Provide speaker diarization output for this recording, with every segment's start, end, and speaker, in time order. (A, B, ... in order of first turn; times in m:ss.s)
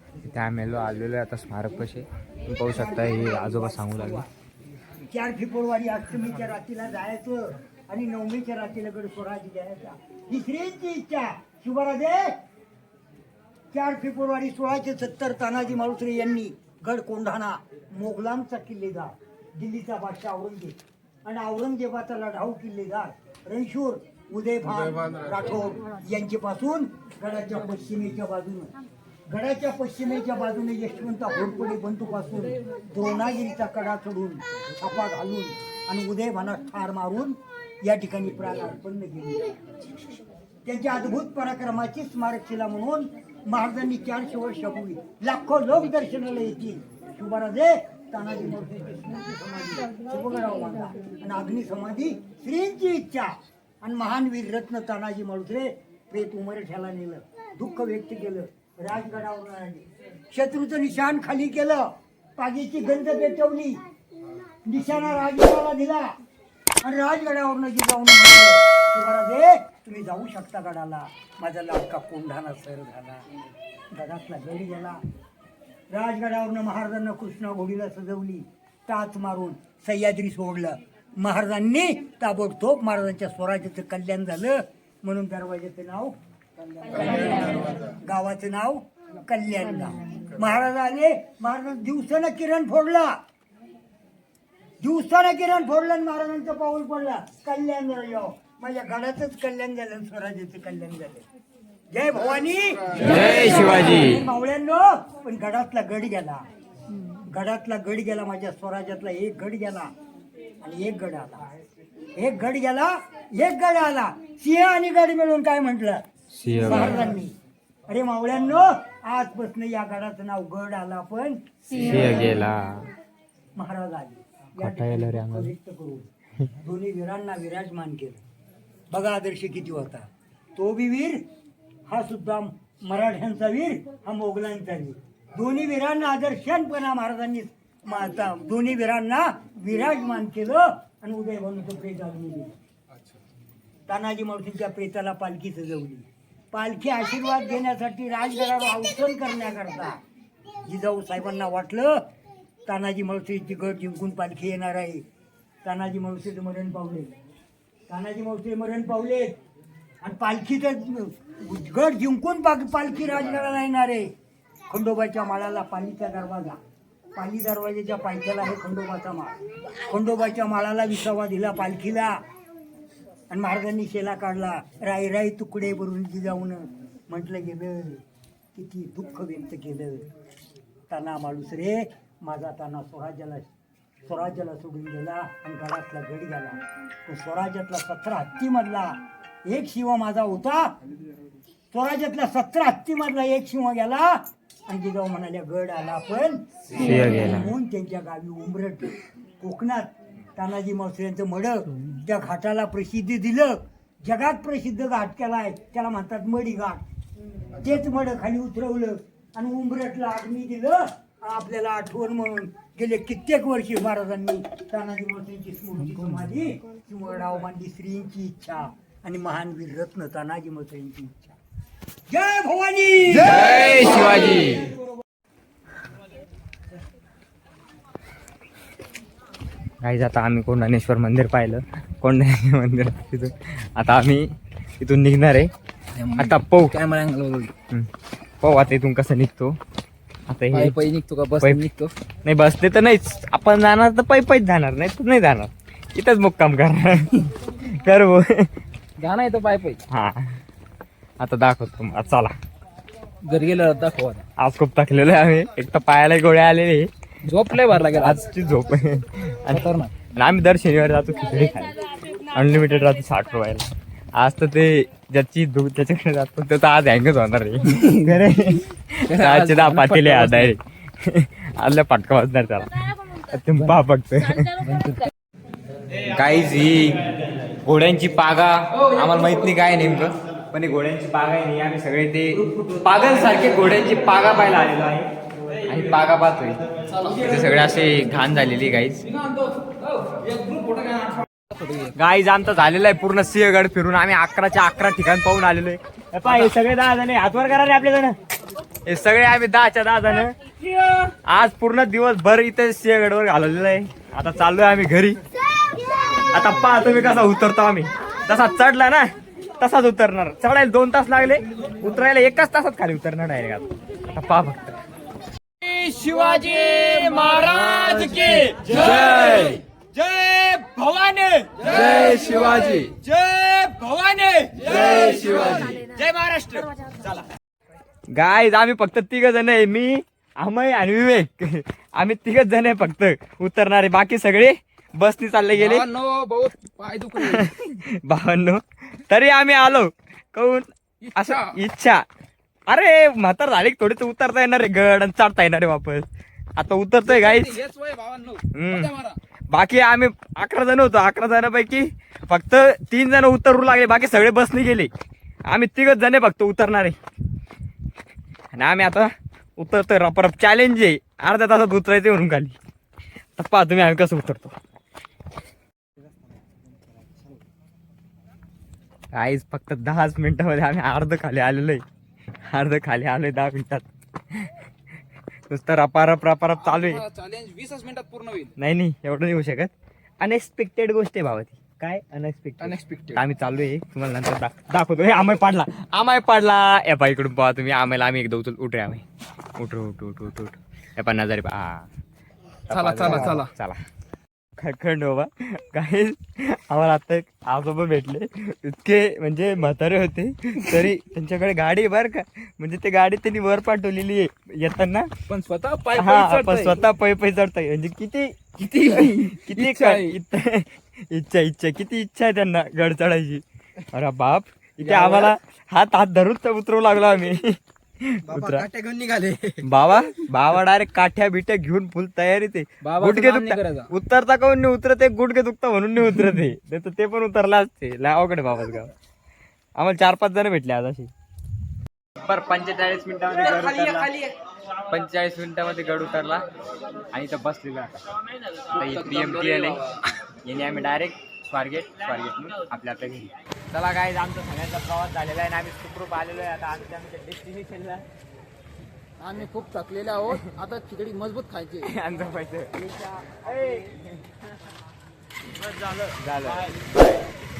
0:00.2-0:04.2 A
0:02.7-0:04.3 B
0:05.1-0:12.4 B
0:13.7-0:28.7 B
0:29.3-0:39.5 B
0:40.6-1:03.8 B
1:04.6-1:06.2 B
1:06.8-1:13.2 B
1:13.9-1:15.0 B
1:15.9-1:26.2 B
1:26.8-1:33.1 B
1:34.8-1:41.2 B
1:41.9-1:46.4 B
1:43.0-1:44.2 A
1:47.3-1:49.9 B
1:50.6-1:51.4 B
1:52.2-1:56.0 B
1:56.3-1:57.1 A
1:56.6-1:57.3 B
1:57.9-2:02.4 B
2:01.8-2:02.9 A
2:03.6-2:08.2 B
2:04.6-2:05.5 A
2:08.9-2:11.2 B
2:11.9-2:22.5 B
2:23.9-2:30.0 B
2:30.7-2:32.0 B
2:32.7-2:35.0 B
2:35.6-2:37.1 B
2:37.9-2:39.3 B
2:40.0-2:44.1 B
2:44.7-2:46.6 B
2:47.1-2:52.2 B
2:53.3-2:58.0 B
2:58.5-3:00.0 B
3:00.9-3:03.5 B
3:04.0-3:10.7 B
3:11.7-3:26.8 B
3:16.7-3:17.5 A
3:27.5-3:41.4 B
3:42.1-3:43.5 B
3:43.2-3:44.7 A
3:49.8-3:54.3 A
3:54.8-3:55.5 A
3:56.0-3:57.5 C
3:56.2-3:56.7 A
3:58.4-3:59.6 A
4:00.3-4:00.8 A
4:00.5-4:01.9 C
4:01.4-4:01.6 A
4:02.2-4:08.5 A
4:09.0-4:09.8 C
4:09.9-4:10.4 A
4:11.2-4:12.3 A
4:13.2-4:14.2 C
4:14.4-4:16.9 A
4:17.2-4:18.2 C
4:17.5-4:34.6 A
4:19.5-4:19.9 C
4:29.1-4:30.5 C
4:34.6-4:35.1 C
4:36.0-4:37.0 A
4:37.6-4:45.1 A
4:45.7-4:46.6 A
4:47.0-4:47.3 C
4:47.1-4:49.0 A
4:49.2-4:51.9 C
4:51.9-4:58.2 A
4:56.3-4:56.5 C
4:58.8-5:00.3 A
5:01.2-5:05.2 A
5:06.3-5:14.7 A
5:15.6-5:26.9 A
5:25.2-5:25.6 C
5:28.1-5:35.9 A
5:35.5-5:37.5 C
5:37.2-5:42.0 A
5:41.0-5:41.6 C
5:42.7-5:47.6 A
5:47.0-5:49.2 C
5:48.5-5:48.9 A
5:49.5-5:54.9 A
5:55.5-5:57.0 A
5:58.5-6:02.6 A
6:03.4-6:04.5 A
6:09.1-6:11.8 A
6:12.5-6:14.5 A
6:15.5-6:17.0 A
6:16.6-6:18.5 C
6:18.6-6:29.0 A
6:22.6-6:23.2 C
6:29.6-6:31.9 A
6:32.7-6:33.8 A
6:32.7-6:33.5 C
6:34.6-6:45.1 A
6:45.3-6:46.8 C
6:46.0-6:58.7 A
6:48.6-6:50.2 C
6:54.8-6:55.3 C
6:58.2-6:59.6 C
6:59.6-7:08.9 A
7:02.8-7:03.9 C
7:09.8-7:11.1 A
7:12.2-7:14.1 A
7:13.4-7:14.3 C
7:14.9-7:16.4 A
7:17.1-7:18.0 A
7:18.7-7:19.8 A
7:18.7-7:20.0 C
7:20.4-7:28.0 A
7:29.2-7:31.9 C
7:31.8-7:34.2 A
7:35.6-7:37.2 A